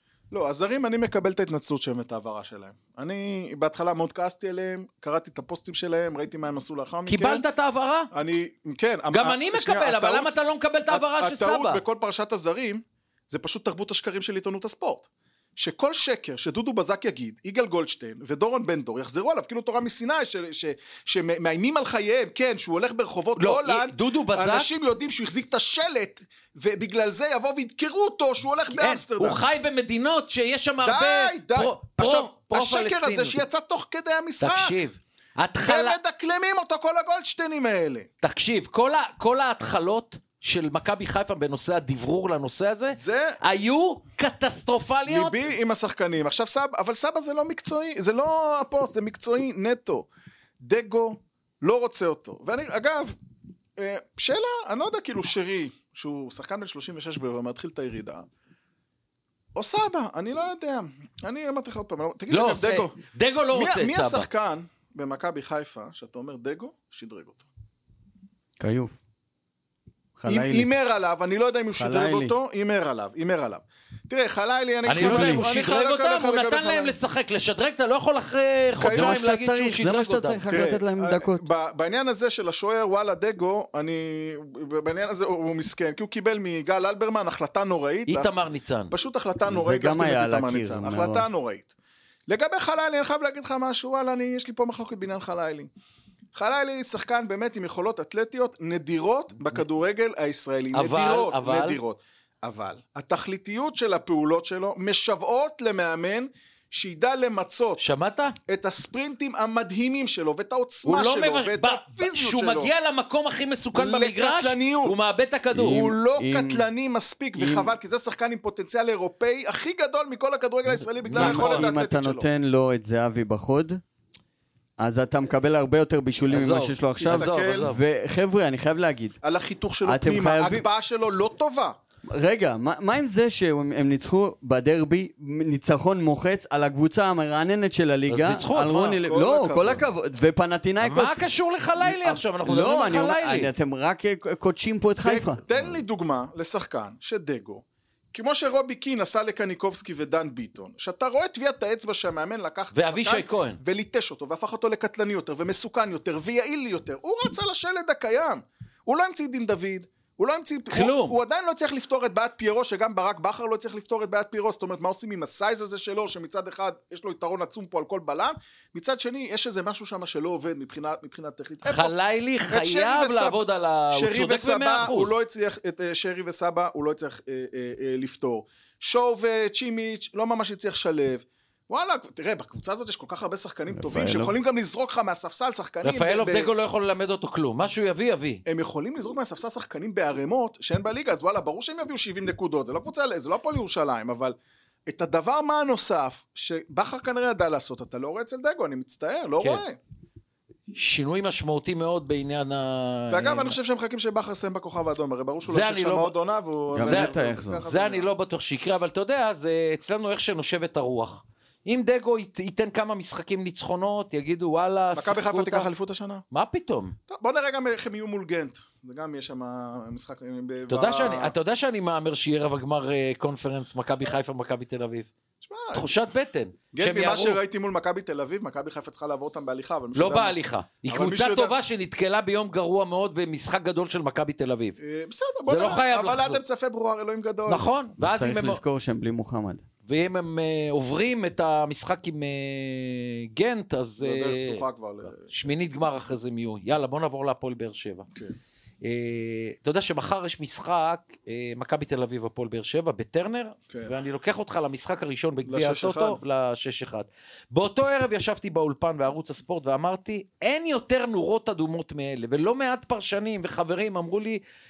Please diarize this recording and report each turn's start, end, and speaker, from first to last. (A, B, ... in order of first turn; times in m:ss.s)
0:00.3-0:07.4 A
0:07.1-0:08.1 B
0:08.1-0:10.3 A
0:09.1-0:11.8 B
0:10.9-0:29.4 A
0:23.4-0:24.7 B
0:28.7-0:33.4 B
0:30.8-0:34.8 A
0:34.4-0:36.0 B
0:35.6-0:38.1 A
0:38.2-0:45.4 B
0:42.9-0:43.4 A
0:45.1-0:50.1 A
0:50.6-0:53.2 A
0:53.8-0:58.2 A
0:59.5-1:03.0 A
1:02.3-1:04.3 B
1:03.5-1:07.4 A
1:08.6-1:09.0 C
1:10.2-1:10.7 C
1:10.3-1:17.0 A
1:11.7-1:12.3 C
1:14.8-1:20.4 B
1:14.9-1:15.4 C
1:18.8-1:19.3 A
1:18.8-1:21.4 C
1:20.5-1:28.3 A
1:28.1-1:28.9 B
1:28.9-1:31.7 A
1:29.5-1:31.3 C
1:32.3-1:35.7 A
1:36.3-1:47.8 A
1:40.7-1:41.8 B
1:47.8-1:48.4 B
1:48.5-1:52.7 A
1:50.8-1:55.9 B
1:53.7-1:55.0 A
1:55.5-1:56.6 C
1:55.6-2:02.3 A
1:57.4-1:57.7 C
2:01.1-2:01.7 B
2:01.1-2:03.8 C
2:04.8-2:09.2 C
2:06.3-2:07.8 B
2:07.0-2:07.7 A
2:09.2-2:11.8 A
2:09.8-2:10.7 C
2:12.0-2:21.2 C
2:18.1-2:19.0 B
2:19.0-2:19.8 A
2:20.8-2:23.5 B
2:21.8-2:25.8 C
2:25.0-2:51.9 A
2:32.7-2:33.6 B
2:40.7-2:41.2 B
2:51.6-2:55.1 B
2:52.5-2:53.4 A
2:53.9-3:06.5 A
3:03.7-3:04.3 C
3:05.8-3:08.4 B
3:08.4-3:14.4 A
3:14.9-3:19.8 A
3:20.7-3:23.6 B
3:23.1-3:28.1 A
3:25.4-3:26.1 B
3:26.7-3:27.6 C
3:26.8-3:35.7 B
3:34.9-3:36.2 A
3:36.3-3:37.0 B
3:37.1-3:41.3 A
3:40.7-3:45.1 B
3:45.4-3:45.9 A
3:45.7-3:47.4 B
3:46.7-3:51.6 A
3:49.9-3:54.8 B
3:54.8-3:57.6 A
3:55.4-3:56.4 B
3:57.5-3:58.6 B
3:58.0-3:59.6 C
3:59.8-4:04.6 B
4:04.0-4:05.4 A
4:05.2-4:08.0 B
4:08.8-4:24.4 B
4:15.4-4:16.2 A